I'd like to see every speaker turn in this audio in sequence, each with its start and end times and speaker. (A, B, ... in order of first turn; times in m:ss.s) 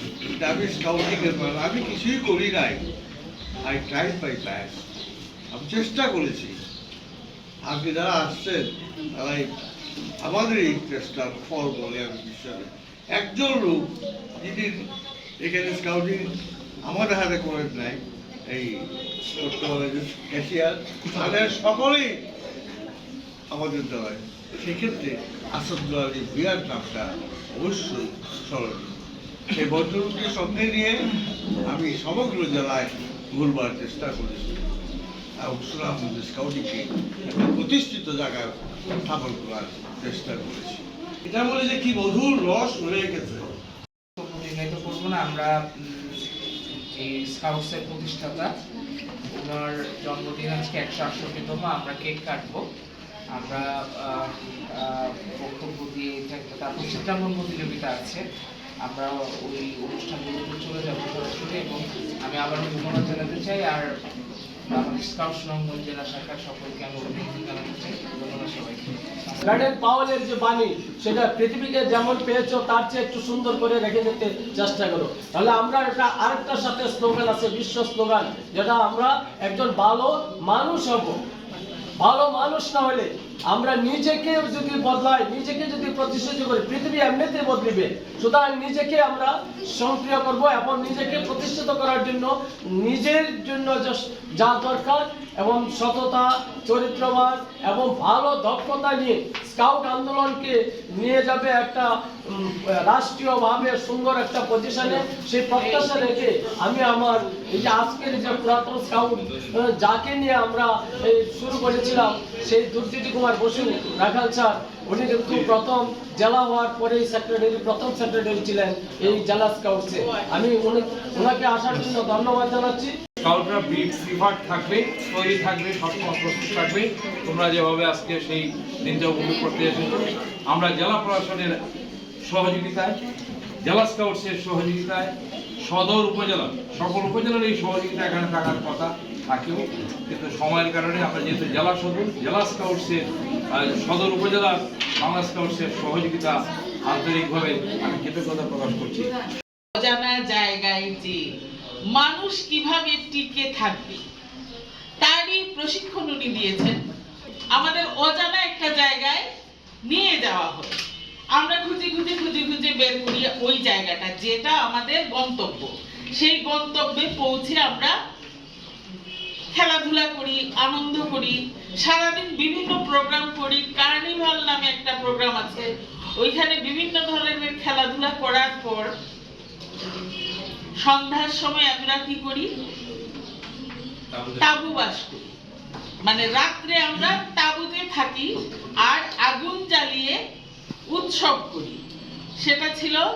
0:00.4-0:02.8 A
0:03.6-0:04.8 A
0:05.5-0:06.6 A
0:07.6-0:09.5 A
0:10.2-0:14.8 A
0:15.4-0:16.2 A
0:16.8-0:22.2 A
0:23.5-0:29.0 A
0:29.5-0:31.1 A
0:31.7-0:34.6 A
0:35.4-0:43.5 A
0:44.2-0:46.2 B
0:47.0-0:48.5 B
0:49.3-0:52.6 B
0:53.3-0:58.2 B
0:58.8-1:03.8 B
1:04.7-1:09.4 B
1:09.4-1:21.2 C
1:22.0-2:02.9 C
1:45.6-1:46.2 B
2:03.2-2:11.6 D
2:12.2-2:13.0 D
2:13.6-2:29.1 D
2:29.8-2:31.2 E
2:31.9-2:34.0 E
2:35.0-2:36.8 E
2:37.5-2:39.2 E
2:39.9-2:40.8 E
2:41.3-2:47.9 E
2:49.5-2:55.7 E
2:56.2-2:58.9 E
3:00.8-3:02.5 E
3:04.1-3:04.6 D
3:04.4-3:05.2 E
3:06.0-3:10.2 E
3:10.9-3:11.8 E
3:12.4-3:13.0 E